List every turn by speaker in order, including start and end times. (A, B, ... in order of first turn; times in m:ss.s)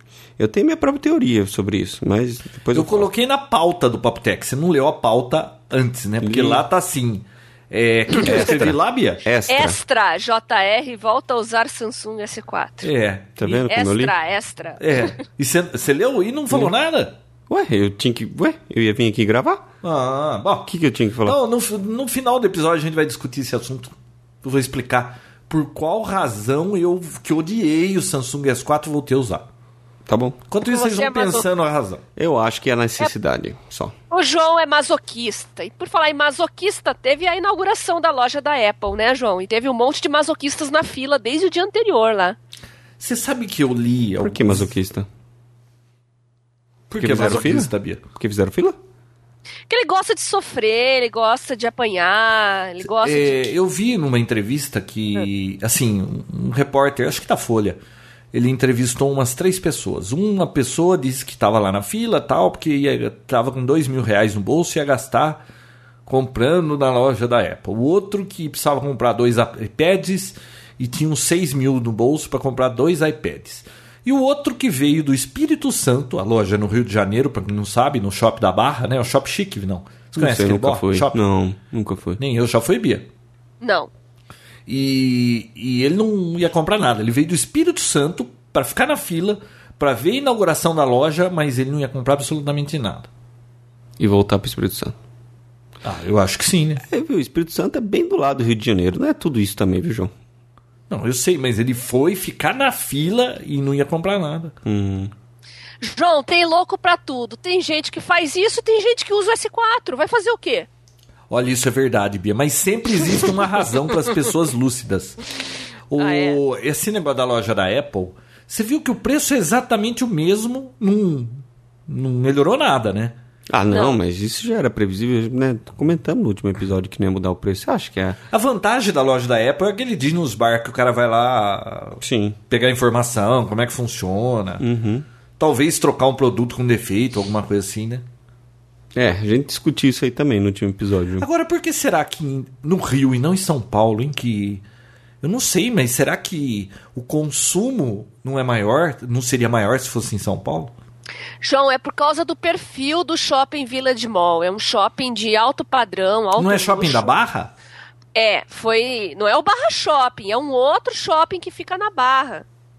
0:00.4-0:03.1 A
0:02.7-0:09.2 B
0:06.2-0:06.6 A
0:08.2-0:09.8 A
0:09.5-0:12.9 C
0:12.8-0:13.7 B
0:13.4-0:14.1 A
0:13.7-0:15.1 C
0:14.8-0:17.2 B
0:17.5-0:19.7 A
0:19.8-0:20.7 B
0:20.7-0:21.4 A
0:21.2-0:29.5 B
0:30.1-0:30.4 A
0:30.5-0:32.0 B
0:30.7-0:31.4 C
0:32.2-0:33.9 A
0:34.1-0:42.4 C
0:43.0-0:44.7 B
0:44.2-0:45.1 A
0:46.9-0:48.0 B
0:46.9-0:48.8 A
0:49.7-0:53.5 C
0:52.8-0:57.8 B
0:58.3-1:05.4 B
1:06.1-1:21.2 B
1:20.2-1:22.2 A
1:22.2-1:23.1 B
1:23.6-1:23.9 C
1:24.7-1:33.1 B
1:34.0-1:35.0 A
1:35.8-1:36.8 B
1:36.9-1:40.1 A
1:40.9-1:44.5 B
1:44.6-1:45.1 A
1:45.8-1:50.7 C
1:51.3-1:55.2 B
1:55.9-2:03.2 B
1:56.0-1:56.4 C
2:03.5-2:08.2 A
2:03.7-2:04.0 C
2:08.3-2:14.6 B
2:12.0-2:12.4 A
2:14.6-2:15.1 A
2:15.4-2:18.0 B
2:19.0-2:21.3 A
2:21.2-2:24.6 B
2:25.2-2:30.7 B
2:31.4-2:37.1 C
2:36.4-2:37.5 B
2:38.2-2:42.4 C